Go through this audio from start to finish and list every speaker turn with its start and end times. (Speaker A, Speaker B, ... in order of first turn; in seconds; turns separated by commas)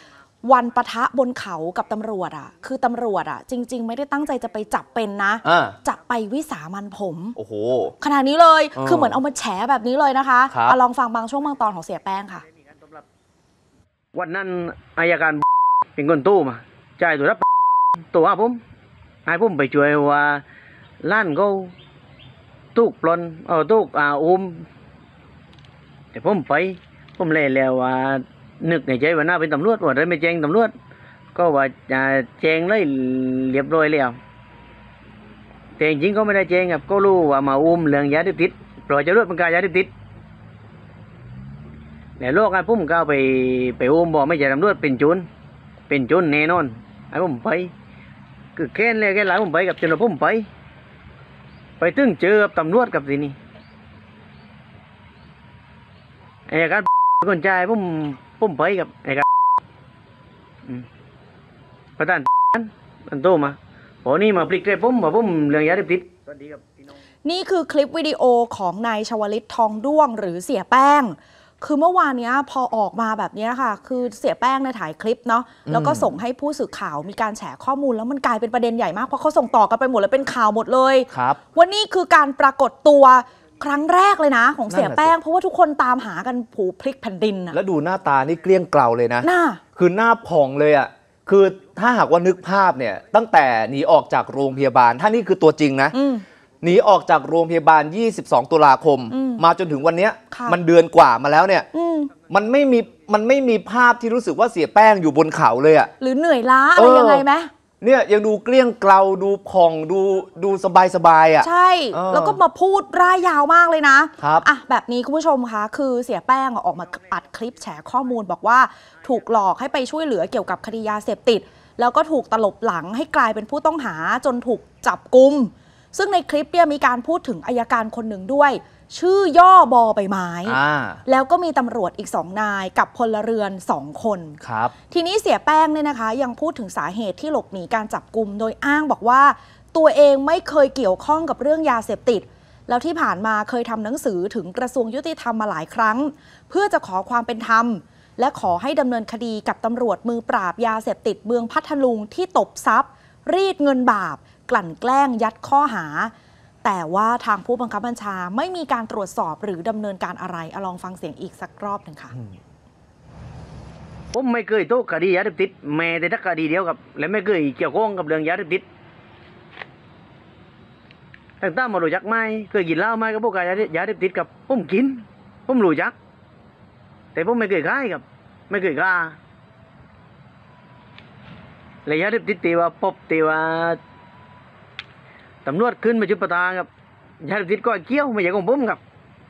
Speaker A: 0.4-7.4, Speaker B: 5.4-5.8, Speaker B: 7.4-7.9, Speaker A: 8.0-12.4, Speaker B: 8.8-9.2, Speaker B: 10.5-10.8, Speaker C: 14.1-15.4, Speaker C: 15.9-17.4, Speaker C: 18.1-18.6, Speaker C: 19.2-20.4, Speaker C: 21.0-21.7, Speaker C: 22.7-24.7, Speaker C: 26.1-30.7, Speaker C: 31.3-34.2, Speaker C: 35.8-39.9, Speaker C: 42.2-45.3, Speaker C: 45.9-47.7, Speaker C: 48.5-50.5, Speaker C: 51.8-53.4, Speaker C: 56.5-59.2, Speaker C: 62.0-66.6, Speaker A: 67.2-87.6, Speaker B: 75.7-76.1, Speaker B: 81.1-81.4, Speaker B: 84.7-85.1, Speaker B: 87.5-96.0, Speaker A: 89.2-89.6, Speaker A: 95.9-96.2, Speaker B: 96.6-101.7, Speaker A: 99.1-99.4, Speaker A: 100.3-100.6, Speaker A: 101.7-102.1, Speaker B: 102.3-105.9, Speaker A: 106.0-107.5, Speaker B: 106.8-107.2, Speaker B: 107.8-112.4, Speaker A: 111.4-156.1, Speaker B: 114.2-114.5, Speaker B: 130.4-131.0, Speaker B: 134.4-134.7, Speaker A: 156.6-162.2, Speaker C: 164.1-168.6, Speaker C: 171.4-175.9, Speaker C: 177.1-179.2, Speaker C: 181.8-183.8, Speaker C: 185.4-186.7, Speaker C: 187.2-188.8